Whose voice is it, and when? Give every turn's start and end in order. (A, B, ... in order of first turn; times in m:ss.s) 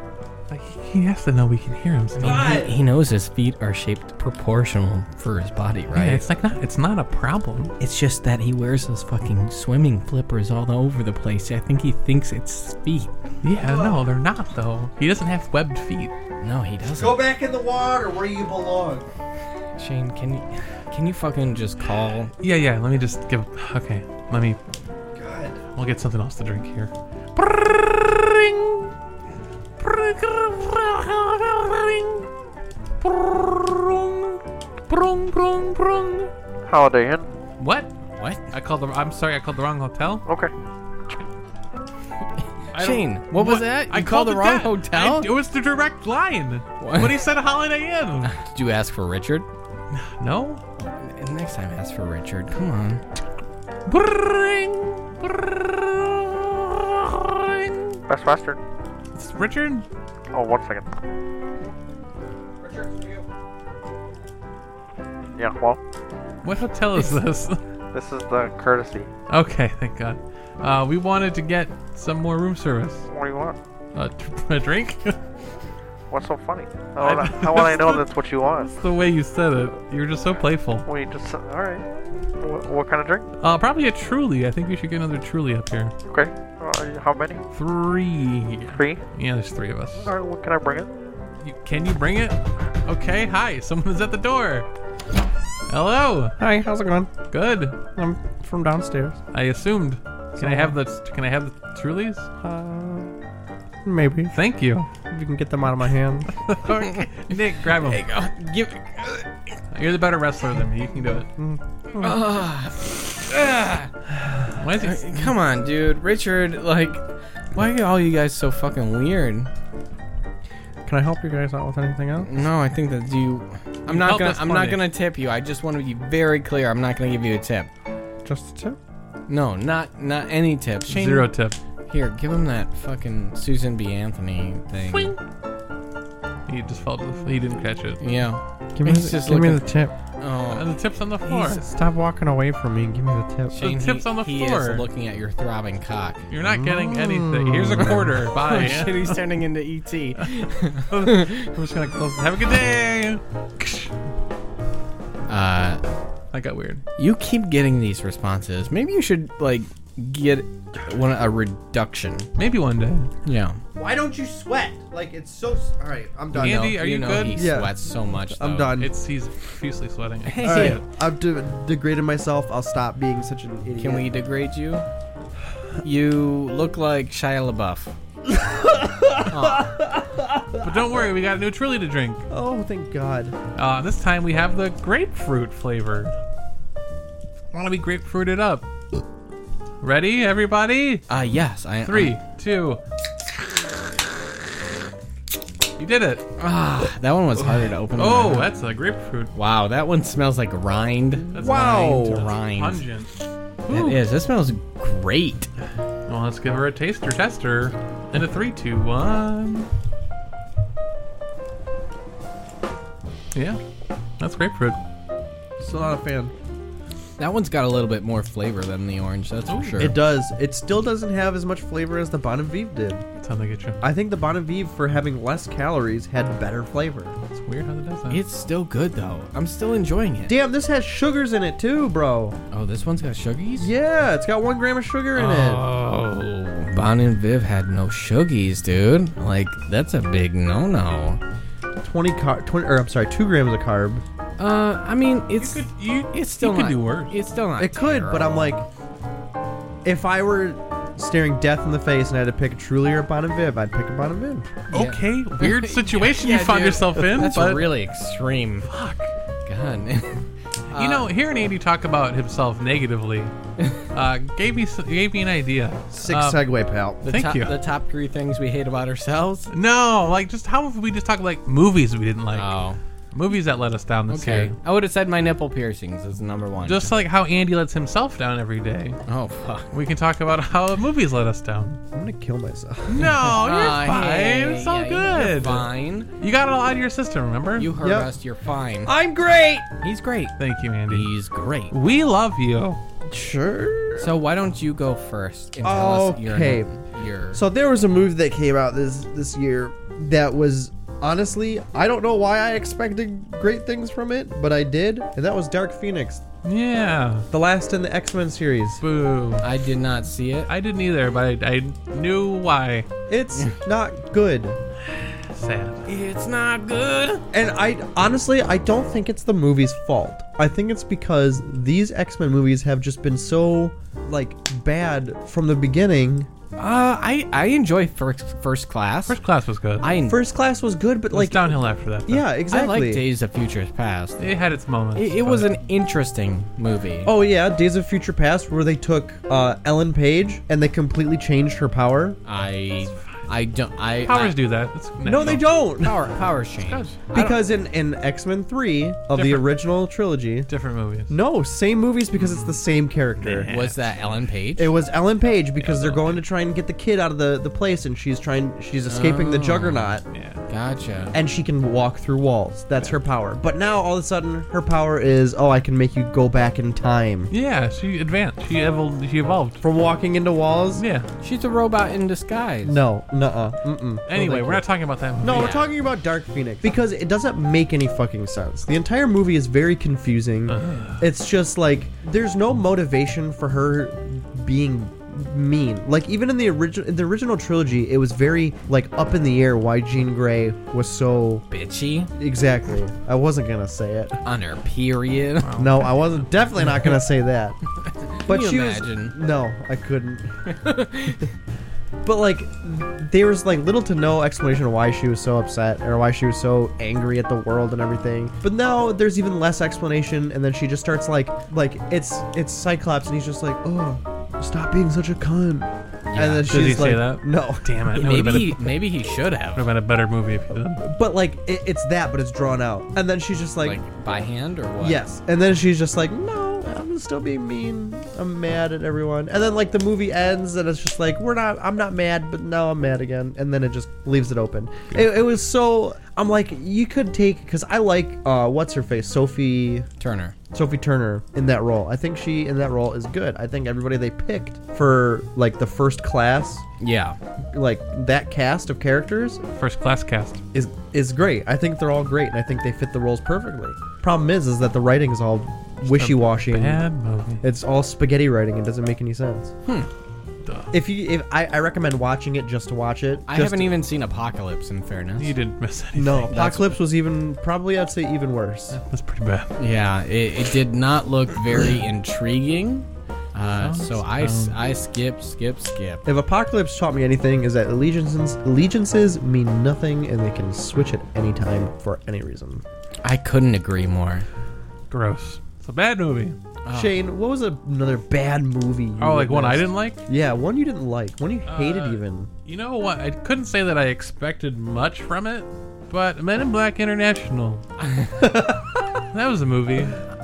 0:00.5-0:02.7 A
0:02.2-0:06.2 B
0:02.2-0:02.8 C
0:05.9-0:07.7 A
0:07.8-0:13.1 B
0:13.4-0:16.1 A
0:13.6-0:14.0 C
0:16.4-0:17.2 B
0:17.0-0:19.1 C
0:19.8-0:22.3 B
0:22.4-0:24.6 A
0:25.2-0:25.6 C
0:25.8-0:28.9 A
0:29.8-0:32.3 A
0:33.0-0:36.3 A
0:36.7-0:37.3 D
0:37.6-0:37.9 A
0:38.2-0:38.4 B
0:38.5-0:40.3 A
0:40.3-0:40.5 D
0:42.7-0:45.3 B
0:42.7-0:48.3 A
0:46.8-0:47.2 B
0:48.2-0:49.5 B
0:49.9-0:50.6 A
0:50.8-0:53.0 B
0:53.9-0:58.0 A
0:58.1-0:58.6 D
0:59.1-0:59.8 A
1:00.3-1:00.9 D
1:02.6-1:03.2 C
1:05.4-1:05.8 D
1:06.4-1:07.6 A
1:07.9-1:09.1 D
1:09.3-1:13.1 A
1:13.1-1:13.6 D
1:13.9-1:15.2 A
1:16.1-1:18.8 D
1:17.0-1:18.1 A
1:18.7-1:20.9 A
1:20.9-1:21.8 D
1:22.4-1:23.3 D
1:23.4-1:25.9 A
1:26.1-1:27.4 D
1:27.5-1:30.1 A
1:28.7-1:29.0 D
1:30.0-1:31.0 D
1:31.4-1:34.7 A
1:35.7-1:36.4 A
1:36.4-1:37.1 C
1:37.3-1:37.9 A
1:38.0-1:39.2 C
1:39.3-1:42.3 A
1:40.4-1:40.8 C
1:42.4-1:43.2 C
1:43.8-1:44.3 C
1:44.3-1:44.9 A
1:45.1-1:46.3 C
1:46.4-1:48.1 A
1:46.7-1:47.1 B
1:47.7-1:49.3 B
1:49.7-1:51.3 A
1:51.9-1:53.9 B
1:54.4-1:55.3 A
1:54.8-1:59.5 B
2:00.9-2:02.3 C
2:02.2-2:07.7 B
2:03.9-2:04.8 A
2:08.2-2:08.8 C
2:09.3-2:11.3 B
2:10.9-2:11.6 A
2:11.9-2:15.1 B
2:14.8-2:15.2 A
2:16.5-2:18.0 A
2:18.0-2:19.7 B
2:18.8-2:19.9 C
2:20.2-2:20.8 B
2:20.5-2:21.6 A
2:21.2-2:23.6 C
2:23.5-2:26.3 B
2:23.6-2:24.9 A
2:26.3-2:29.2 A
2:26.4-2:28.2 C
2:28.2-2:31.5 B
2:30.9-2:33.9 A
2:35.3-2:35.8 B
2:36.3-2:36.8 A
2:37.0-2:42.3 B
2:42.4-2:43.1 A
2:43.2-2:43.6 B
2:43.8-2:47.8 C
2:46.3-2:48.7 B
2:46.4-2:47.6 A
2:48.3-2:48.9 C
2:48.6-2:50.8 A
2:50.3-2:50.8 B
2:50.4-2:54.1 C
2:53.8-2:54.9 B
2:55.8-2:57.9 B
2:58.3-3:00.9 C
2:59.3-2:59.8 B
3:00.6-3:02.3 A
3:02.3-3:03.4 C
3:03.6-3:06.1 A
3:07.5-3:08.7 A
3:09.8-3:11.1 A
3:11.1-3:12.2 B
3:11.8-3:12.8 A
3:15.8-3:16.2 A
3:16.4-3:18.5 B
3:18.0-3:19.3 A
3:19.4-3:22.8 B
3:21.3-3:23.1 A
3:21.4-3:22.3 C
3:23.7-3:24.1 A
3:23.7-3:25.5 B
3:26.1-3:29.7 A
3:33.3-3:33.6 A
3:34.2-3:34.8 A
3:35.6-3:36.3 C
3:37.2-3:40.0 B
3:39.5-3:39.9 A
3:39.8-3:43.0 C
3:43.2-3:43.8 A
3:43.8-3:47.2 C
3:47.3-3:48.2 A
3:48.1-3:50.4 B
3:50.3-3:52.4 C
3:52.5-3:53.7 B
3:53.6-3:55.6 C
3:55.2-4:01.2 B
4:01.8-4:04.0 C
4:04.4-4:08.6 B
4:05.4-4:07.1 A
4:07.6-4:08.6 C
4:09.8-4:14.5 C
4:14.7-4:18.7 B
4:14.7-4:17.7 A
4:18.7-4:19.1 A
4:19.5-4:21.1 B
4:20.7-4:23.3 A
4:23.9-4:26.4 A
4:25.9-4:27.0 C
4:27.0-4:29.5 B
4:27.0-4:27.5 A
4:29.5-4:32.5 A
4:32.3-4:32.8 B
4:33.1-4:34.6 A
4:34.1-4:36.9 B
4:36.6-4:39.0 A
4:39.1-4:39.7 B
4:39.7-4:41.8 A
4:41.9-4:43.1 C
4:42.9-4:47.7 A
4:43.0-4:46.1 B
4:47.6-4:48.9 B
4:47.8-4:48.1 C
4:48.8-4:49.7 C
4:49.8-4:50.4 B
4:50.4-4:51.1 A
4:50.9-4:51.7 B
4:51.7-4:52.8 A
4:53.1-4:54.1 C
4:54.0-4:57.4 B
4:55.6-4:56.7 C
4:57.3-5:06.2 C
5:06.4-5:07.3 A
5:07.3-5:08.8 C
5:08.8-5:09.5 A
5:09.4-5:10.5 B
5:10.5-5:12.9 A
5:13.1-5:14.6 C
5:15.0-5:15.8 A
5:15.9-5:17.2 B
5:17.3-5:26.3 C
5:26.6-5:29.2 B
5:29.1-5:29.9 A
5:29.8-5:30.2 B
5:30.0-5:33.0 C
5:31.1-5:32.3 A
5:32.5-5:34.2 B
5:34.2-5:35.5 A
5:35.0-5:37.1 B
5:37.0-5:42.2 C
5:42.3-5:44.4 B
5:44.0-5:45.5 A
5:45.0-5:46.0 C
5:45.3-5:47.4 B
5:46.7-5:47.0 A
5:47.1-5:50.5 C
5:49.1-5:49.5 A
5:50.5-5:51.1 A
5:51.1-5:53.5 C
5:52.2-5:52.6 A
5:53.2-5:53.9 A
5:53.5-5:54.7 B
5:54.6-6:00.0 C
5:55.6-5:56.2 A
5:58.9-6:00.0 B
6:00.1-6:00.4 A
6:00.5-6:01.2 B
6:01.1-6:07.3 C
6:07.3-6:09.6 A
6:09.6-6:10.8 C
6:10.8-6:11.1 A
6:11.2-6:12.8 B
6:12.6-6:14.6 C
6:14.1-6:15.5 A
6:15.2-6:31.4 C
6:15.3-6:15.7 B
6:20.5-6:21.1 A
6:31.5-6:32.1 B
6:32.2-6:34.2 C
6:34.2-6:35.6 B
6:35.4-6:36.3 A
6:35.6-6:37.6 C
6:37.8-6:39.2 B
6:38.3-6:40.4 C
6:40.5-6:41.3 B
6:42.0-6:57.7 C
6:56.1-6:56.6 B
6:56.5-6:58.8 A
6:57.9-6:59.7 B
6:59.6-7:00.8 A
7:00.8-7:03.8 C
7:03.6-7:05.0 B
7:04.8-7:19.9 C
7:20.0-7:20.4 B
7:20.5-7:26.6 C
7:26.8-7:27.2 B
7:27.5-7:29.4 C
7:29.6-7:30.4 A
7:30.5-7:36.8 C
7:35.8-7:37.4 A
7:37.4-7:39.5 C
7:40.7-7:43.8 C
7:43.3-7:45.3 B
7:45.2-7:46.4 A
7:46.0-7:48.8 C
7:46.3-7:46.8 B
7:48.7-7:49.6 A
7:49.6-7:56.0 B
7:53.6-7:54.6 A
7:56.0-8:02.6 C
8:03.0-8:04.3 B
8:04.9-8:06.4 A
8:06.6-8:07.0 B
8:06.7-8:12.3 C
8:09.0-8:10.0 A
8:11.5-8:17.7 A
8:17.8-8:18.1 B
8:18.2-8:18.8 C
8:19.1-8:20.0 A